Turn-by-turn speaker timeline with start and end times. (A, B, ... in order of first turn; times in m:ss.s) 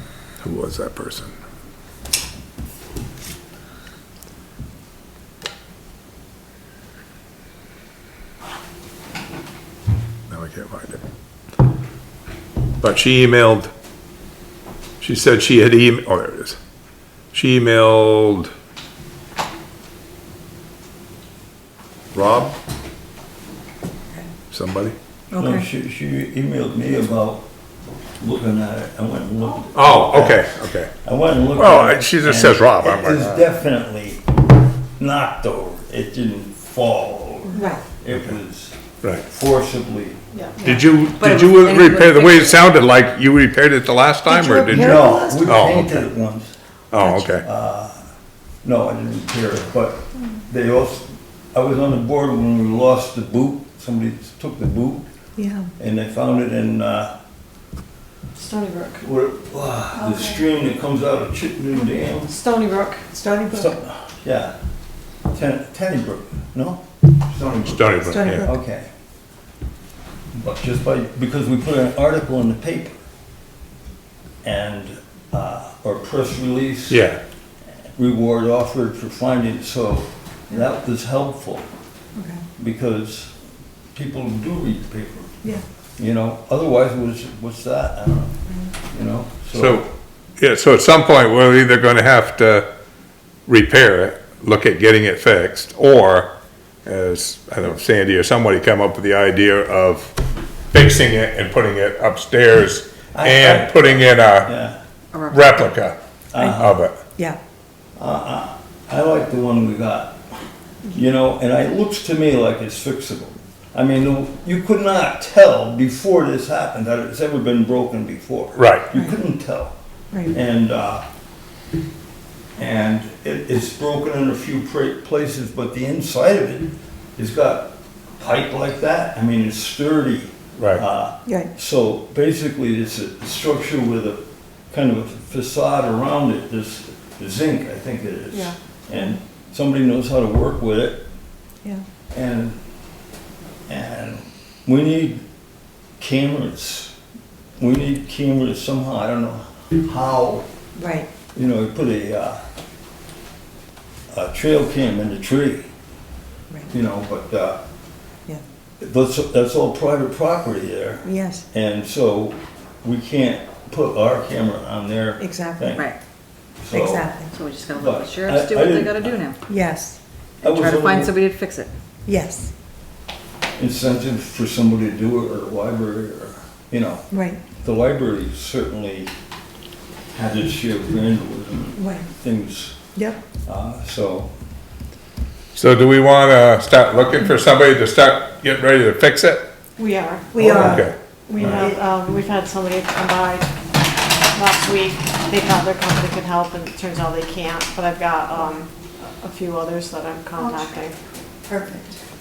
0:00.4-0:01.3 A
0:10.3-0:11.0 A
0:12.8-0:13.7 A
0:15.0-0:16.6 A
0:17.3-0:18.5 A
0:22.1-0:22.5 A
0:24.5-0:25.0 A
0:25.3-0:25.7 B
0:25.3-0:27.4 C
0:28.2-0:34.2 C
0:29.8-0:30.9 A
0:31.5-0:33.4 A
0:35.0-0:40.2 C
0:37.5-0:37.8 D
0:37.6-0:37.8 E
0:40.3-0:40.6 E
0:40.6-0:42.7 B
0:40.6-0:46.1 A
0:44.3-0:45.3 D
0:44.7-0:46.6 C
0:46.9-0:47.4 A
0:47.0-0:47.3 D
0:47.4-0:48.0 C
0:48.6-0:55.0 C
0:55.4-0:55.7 D
0:55.8-0:57.1 C
0:58.4-0:59.0 E
0:59.0-1:02.3 C
1:02.3-1:03.1 E
1:03.1-1:03.7 D
1:03.5-1:04.5 C
1:05.3-1:08.9 C
1:07.7-1:08.5 A
1:08.1-1:08.5 D
1:10.3-1:13.0 C
1:14.4-1:17.0 C
1:16.9-1:17.2 A
1:18.0-1:21.7 C
1:22.2-1:22.4 D
1:22.6-1:23.3 C
1:23.9-1:25.3 C
1:26.0-1:29.9 C
1:29.6-1:32.7 A
1:33.5-1:36.3 A
1:36.8-1:40.2 A
1:40.7-1:44.5 A
1:43.1-1:44.8 C
1:45.1-1:45.8 B
1:45.3-1:46.0 A
1:46.3-1:46.8 C
1:46.4-1:47.4 D
1:46.5-1:47.0 A
1:48.0-1:50.2 C
1:50.9-1:59.7 C
1:58.6-1:58.9 A
2:00.3-2:01.0 C
2:02.6-2:21.0 C
2:10.6-2:10.8 A
2:11.3-2:11.5 D
2:22.1-2:22.6 C
2:23.7-2:25.2 C
2:26.0-2:26.9 C
2:27.6-2:30.5 C
2:30.8-2:31.1 D
2:31.4-2:32.4 C
2:34.1-2:35.7 C
2:36.7-2:37.6 C
2:38.8-2:46.0 C
2:41.0-2:41.4 D
2:45.2-2:45.8 D
2:46.6-2:47.2 C
2:46.7-2:47.3 D
2:47.3-2:49.4 B
2:47.7-2:49.2 C
2:49.5-2:50.0 D
2:50.4-2:51.7 B
2:50.4-2:51.1 C
2:52.1-2:52.5 D
2:53.6-2:59.1 C
2:57.1-2:57.4 D
3:00.1-3:02.8 C
3:01.8-3:02.1 D
3:03.4-3:04.3 C
3:05.5-3:09.5 A
3:09.8-3:13.6 E
3:10.3-3:10.9 D
3:10.4-3:11.7 C
3:10.6-3:11.0 A
3:11.4-3:11.8 D
3:14.3-3:21.0 E
3:20.4-3:20.8 D
3:21.5-3:22.0 D